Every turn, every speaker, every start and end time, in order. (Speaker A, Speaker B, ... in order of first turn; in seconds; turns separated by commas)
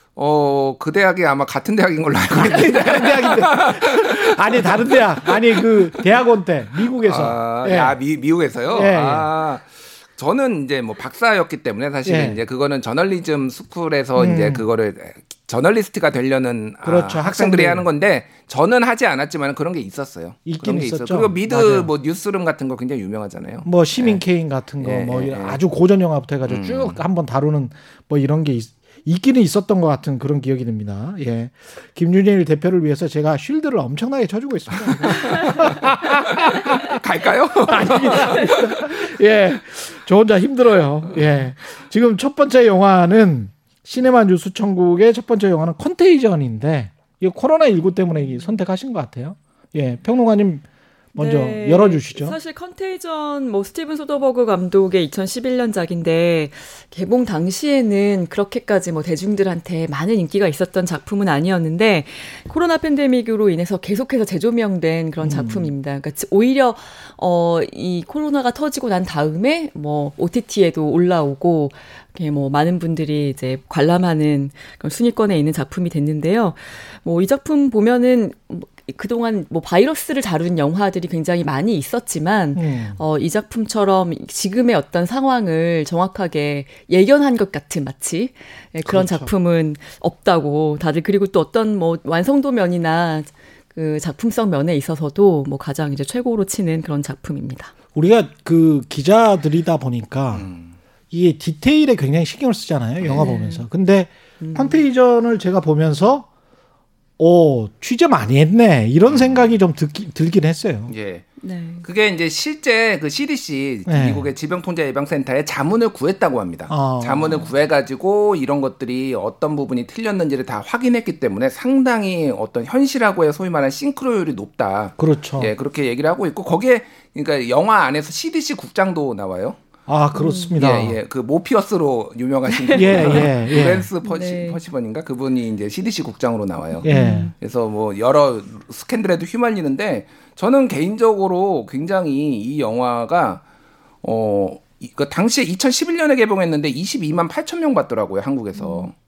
Speaker A: 0.1-5.9, Speaker B: 2.3-8.0, Speaker A: 7.0-9.6, Speaker B: 8.7-9.3, Speaker A: 10.2-24.2, Speaker B: 12.0-12.4, Speaker B: 14.2-14.6, Speaker B: 16.8-17.9, Speaker B: 20.4-21.9, Speaker B: 23.6-36.8, Speaker A: 24.8-25.6, Speaker A: 26.4-27.0, Speaker A: 35.0-35.4, Speaker A: 36.4-38.9, Speaker B: 37.6-52.4, Speaker C: 51.1-97.7, Speaker B: 65.2-65.7, Speaker B: 82.5-83.0, Speaker B: 88.8-89.3, Speaker B: 97.9-100.5, Speaker A: 100.3-100.7, Speaker B: 101.1-106.3, Speaker C: 103.1-103.6, Speaker C: 104.4-104.8, Speaker B: 107.2-110.9, Speaker A: 109.0-109.5, Speaker A: 110.9-111.3, Speaker C: 111.4-111.8, Speaker A: 111.8-129.6, Speaker B: 113.8-114.3, Speaker B: 116.7-117.5, Speaker B: 125.0-125.5, Speaker B: 129.9-131.0, Speaker C: 130.1-130.6, Speaker A: 130.6-136.9, Speaker C: 132.5-134.6, Speaker B: 132.7-133.9, Speaker C: 136.8-137.3, Speaker B: 136.8-137.3, Speaker A: 137.4-143.4, Speaker A: 144.0-148.9, Speaker C: 148.5-148.9